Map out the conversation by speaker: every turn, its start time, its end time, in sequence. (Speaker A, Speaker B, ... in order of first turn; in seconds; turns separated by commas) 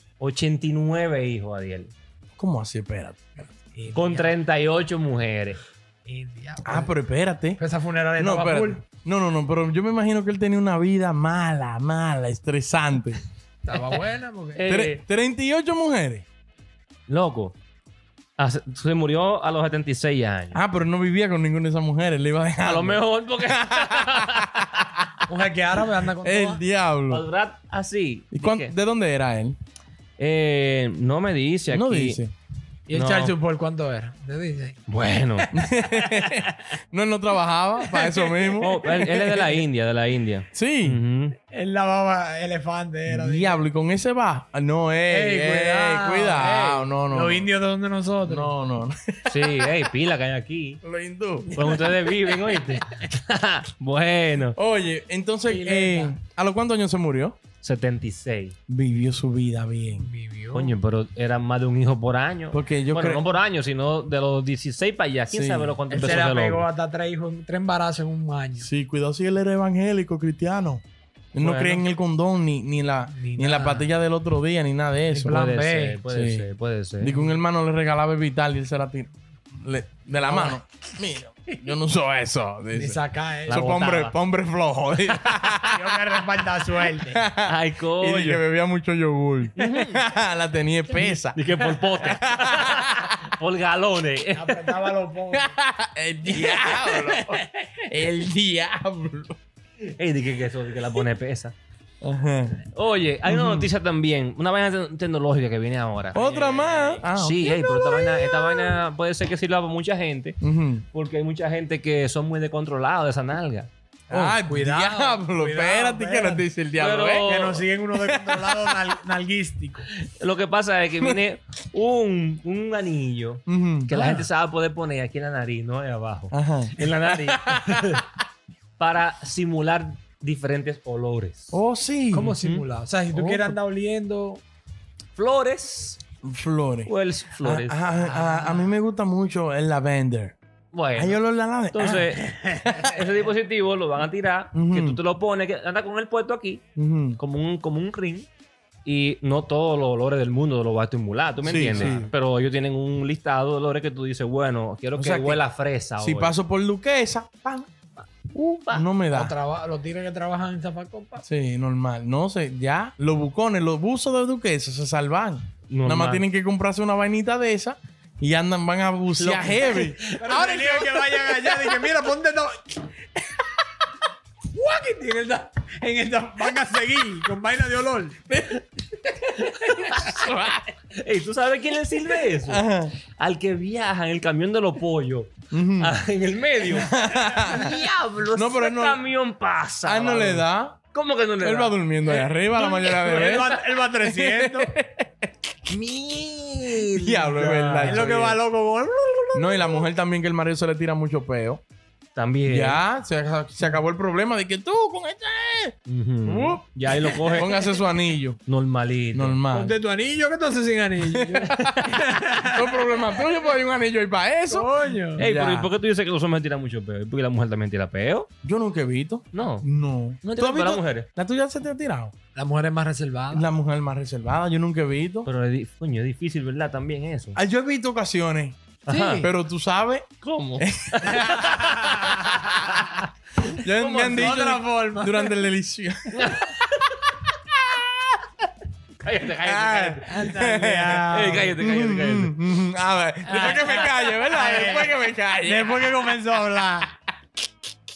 Speaker A: 0.2-1.9, Speaker B: 2.4-3.3, Speaker C: 3.7-4.4, Speaker A: 3.9-5.6, Speaker C: 6.1-7.0, Speaker B: 6.7-7.6, Speaker C: 7.6-8.8, Speaker B: 8.2-13.2, Speaker C: 13.7-14.7, Speaker A: 14.6-15.0, Speaker B: 14.7-16.2, Speaker A: 17.1-17.6, Speaker A: 18.4-20.6, Speaker B: 20.5-25.2, Speaker A: 22.6-25.1, Speaker C: 25.3-26.6, Speaker B: 26.2-27.2, Speaker A: 27.1-28.7, Speaker B: 28.3-29.6, Speaker A: 30.2-32.2, Speaker B: 31.7-32.3, Speaker C: 32.9-34.8, Speaker A: 32.9-33.4, Speaker A: 34.9-35.6, Speaker B: 35.5-39.6, Speaker C: 35.8-36.5, Speaker C: 37.9-38.6, Speaker A: 38.6-41.4, Speaker B: 40.5-41.0, Speaker C: 41.5-43.6, Speaker B: 43.1-47.5, Speaker C: 45.1-48.6, Speaker B: 48.2-49.7, Speaker A: 49.3-50.8, Speaker B: 50.8-51.6, Speaker A: 51.5-54.6, Speaker C: 51.6-52.0, Speaker C: 52.5-52.9, Speaker B: 54.5-57.4, Speaker C: 55.5-56.2, Speaker A: 57.6-58.6, Speaker B: 58.7-60.1, Speaker C: 60.0-60.8, Speaker A: 60.5-66.7, Speaker B: 62.5-63.2, Speaker B: 65.3-65.8, Speaker C: 65.9-68.7, Speaker B: 68.6-75.4, Speaker A: 71.4-71.8, Speaker C: 73.1-73.9, Speaker C: 75.1-76.0, Speaker A: 75.3-77.2, Speaker B: 76.1-76.5, Speaker B: 77.0-93.2, Speaker C: 80.2-80.6, Speaker C: 82.7-84.0, Speaker A: 83.5-84.1, Speaker C: 85.5-87.2, Speaker A: 87.5-88.4, Speaker A: 89.6-90.0, Speaker A: 91.0-95.0, Speaker C: 94.3-95.5, Speaker B: 95.3-99.4, Speaker C: 96.3-97.4, Speaker A: 99.8-101.5, Speaker B: 102.0-102.6, Speaker A: 102.7-110.4, Speaker B: 103.2-103.7, Speaker B: 106.1-108.7, Speaker B: 110.4-110.8, Speaker A: 110.9-113.7, Speaker C: 114.1-116.5, Speaker B: 114.1-118.9, Speaker A: 116.8-117.7, Speaker C: 117.2-119.9, Speaker A: 119.9-128.1, Speaker B: 123.5-124.1, Speaker B: 126.3-128.0, Speaker A: 128.8-131.6, Speaker B: 131.5-132.4, Speaker C: 132.1-134.4, Speaker B: 133.1-133.6, Speaker A: 135.2-136.0, Speaker B: 136.2-140.4, Speaker A: 136.8-137.9, Speaker C: 137.9-138.7, Speaker A: 140.7-146.6, Speaker B: 140.9-142.1, Speaker C: 142.3-143.0, Speaker B: 144.5-145.0, Speaker B: 146.8-147.2, Speaker A: 147.2-148.3, Speaker A: 148.8-156.4, Speaker B: 151.4-152.1, Speaker B: 154.9-155.4, Speaker B: 156.0-157.7, Speaker B: 158.3-159.3, Speaker A: 158.4-158.9, Speaker C: 159.1-161.2, Speaker B: 161.2-171.5, Speaker A: 165.7-166.2, Speaker A: 169.2-170.3, Speaker C: 170.1-172.8, Speaker C: 174.5-178.3, Speaker A: 179.3-180.3, Speaker B: 180.0-180.7, Speaker A: 180.9-191.8, Speaker B: 182.4-183.0, Speaker B: 185.5-186.0, Speaker B: 186.7-187.8, Speaker B: 188.3-189.0, Speaker B: 189.8-190.8, Speaker B: 191.4-195.3, Speaker C: 192.3-194.8, Speaker A: 195.7-198.3, Speaker B: 196.9-198.4, Speaker C: 197.8-199.9, Speaker B: 199.3-201.6, Speaker A: 202.2-202.8, Speaker B: 202.4-205.8, Speaker A: 205.9-207.6, Speaker B: 206.3-206.6, Speaker B: 207.2-208.4, Speaker A: 208.5-209.4, Speaker B: 209.1-209.8, Speaker C: 209.5-213.4, Speaker B: 211.0-211.9, Speaker B: 212.4-215.7, Speaker C: 214.5-215.3, Speaker A: 215.2-218.3, Speaker B: 218.4-222.1, Speaker A: 219.3-219.7, Speaker A: 220.2-221.1, Speaker C: 222.3-223.5, Speaker B: 223.3-225.3, Speaker A: 225.2-227.4, Speaker B: 227.4-230.1, Speaker A: 228.9-229.3, Speaker A: 230.2-233.5, Speaker B: 230.6-231.5, Speaker C: 231.2-232.3, Speaker B: 233.6-236.4, Speaker C: 233.8-235.4, Speaker A: 236.1-237.2, Speaker A: 239.0-240.2, Speaker C: 239.5-241.6, Speaker B: 240.0-246.2, Speaker A: 241.1-242.3, Speaker C: 243.2-247.0, Speaker A: 243.3-243.9